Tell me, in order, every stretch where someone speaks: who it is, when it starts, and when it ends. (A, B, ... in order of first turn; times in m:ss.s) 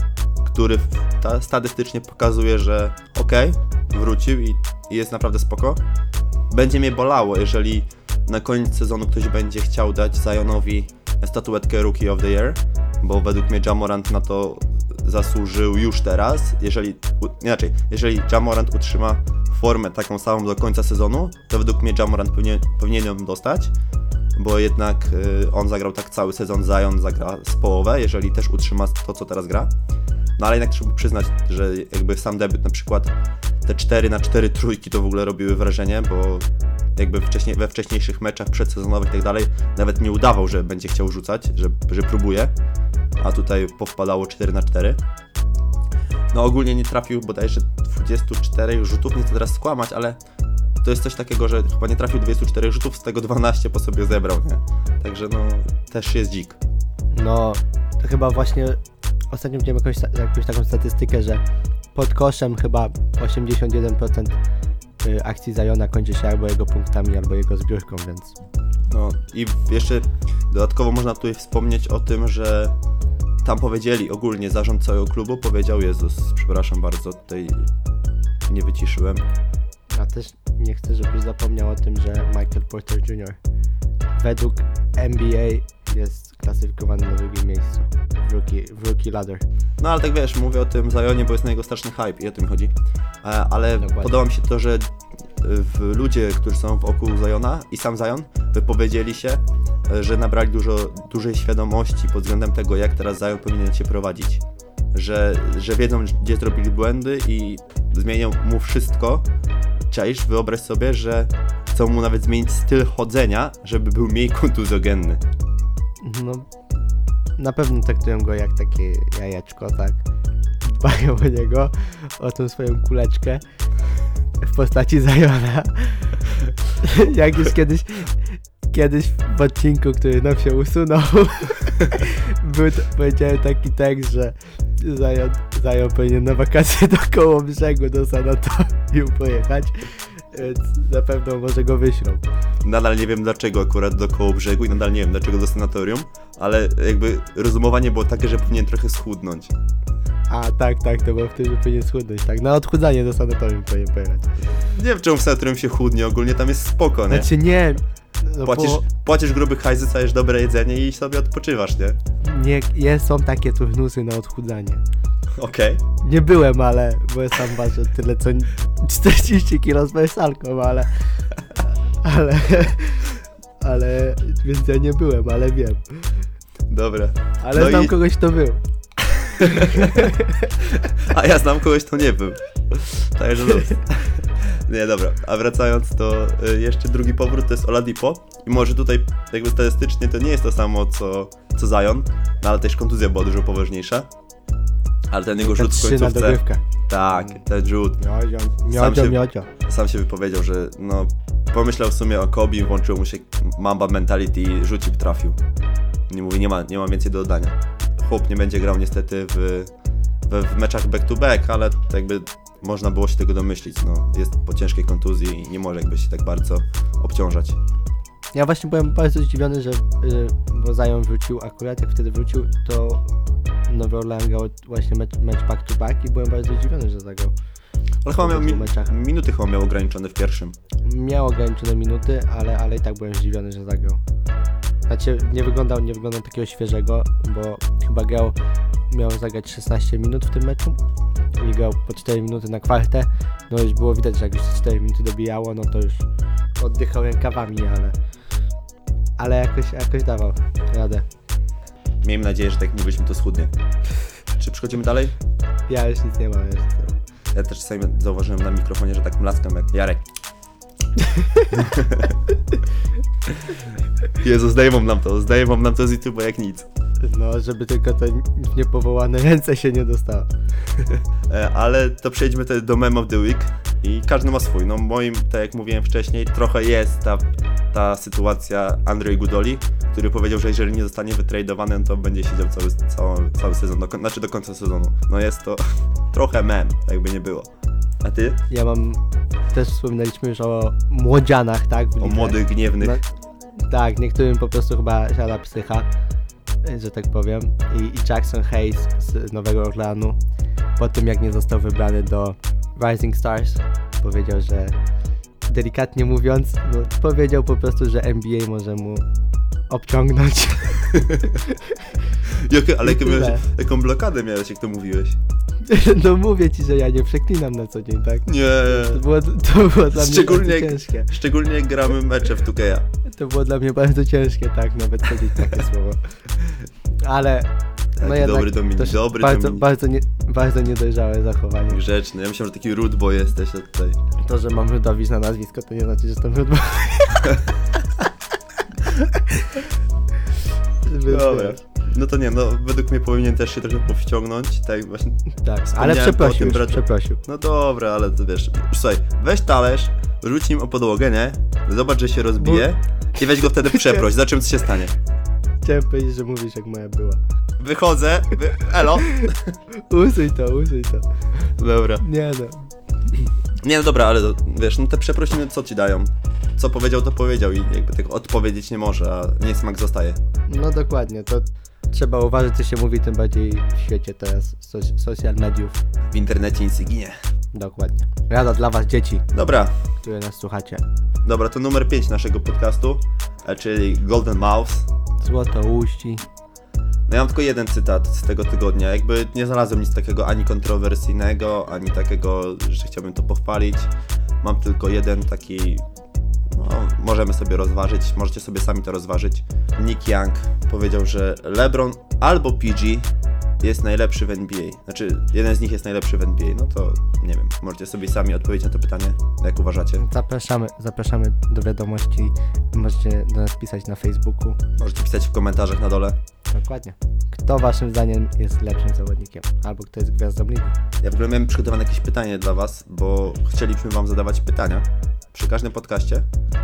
0:00.4-0:05.8 A
0:06.5-0:23.7 A
0:24.4-0:29.7 A
0:30.4-0:33.1 A
0:33.6-0:42.5 A
0:43.2-0:45.0 A
0:46.3-0:50.2 A
0:50.8-0:56.6 A
0:57.1-0:58.8 B
0:59.3-1:01.4 B
1:02.0-1:04.4 B
1:05.0-1:08.4 B
1:08.9-1:12.7 A
1:13.4-1:17.7 A
1:18.5-1:19.2 A
1:19.9-1:23.4 B
1:24.2-1:29.4 B
1:29.8-1:49.3 A
1:33.8-1:34.1 B
1:49.9-1:55.2 A
1:56.0-1:56.5 B
1:57.4-2:00.0 B
2:00.6-2:03.4 B
2:04.4-2:22.3 B
2:22.6-2:29.5 A
2:30.3-2:34.4 B
2:34.6-2:37.3 A
2:37.1-2:38.8 B
2:38.4-2:42.0 A
2:42.2-2:44.8 B
2:45.4-2:45.8 A
2:46.0-2:56.1 B
2:56.7-2:57.9 A
2:57.4-2:58.6 B
2:59.3-3:00.1 A
2:59.4-3:00.5 B
3:01.0-3:14.1 A
3:15.1-3:18.0 A
3:15.4-3:17.4 B
3:18.0-3:19.5 B
3:18.7-3:25.4 A
3:26.1-3:29.7 A
3:30.3-3:37.6 A
3:38.3-3:43.0 B
3:43.7-3:47.3 B
3:48.0-3:50.6 A
3:48.2-3:48.9 B
3:50.8-3:54.0 B
3:54.9-3:58.4 B
3:58.9-4:00.8 B
4:01.4-4:06.0 B
4:06.6-4:08.0 B
4:09.2-4:11.0 B
4:12.0-4:13.5 A
4:14.4-4:15.2 A
4:15.7-4:17.0 B
4:17.3-4:20.0 A
4:21.1-4:21.5 B
4:21.5-4:22.2 A
4:24.2-4:26.7 A
4:27.0-4:30.3 B
4:31.3-4:47.5 A
4:48.0-4:48.4 A
4:48.5-4:53.0 B
4:52.0-4:53.0 A
4:53.7-4:55.9 B
4:56.6-5:00.2 B
5:00.8-5:04.8 B
5:05.5-5:09.0 B
5:09.7-5:11.9 B
5:12.3-5:15.2 A
5:12.8-5:13.5 B
5:15.7-5:21.1 B
5:18.3-5:19.0 A
5:19.9-5:22.9 A
5:23.1-5:26.1 B
5:27.0-5:27.5 B
5:28.0-5:29.7 A
5:28.0-5:31.8 B
5:31.7-5:34.0 A
5:34.2-5:37.5 B
5:38.9-5:39.6 B
5:40.9-5:41.6 B
5:41.1-5:54.9 A
5:45.4-5:47.2 B
5:52.4-5:52.7 B
5:55.6-5:57.2 B
5:57.6-5:59.6 A
5:59.8-6:01.1 B
6:01.6-6:02.0 A
6:02.0-6:02.7 B
6:03.6-6:10.2 A
6:10.5-6:15.8 B
6:16.1-6:17.2 A
6:17.5-6:19.3 B
6:19.3-6:19.7 A
6:20.0-6:20.8 B
6:21.2-6:24.9 A
6:25.2-6:26.2 B
6:27.1-6:33.9 A
6:34.4-6:35.8 A
6:36.5-6:43.1 A
6:43.6-6:50.0 A
6:50.0-6:54.6 B
6:54.8-6:56.2 A
6:56.5-7:00.8 B
7:01.0-7:06.2 A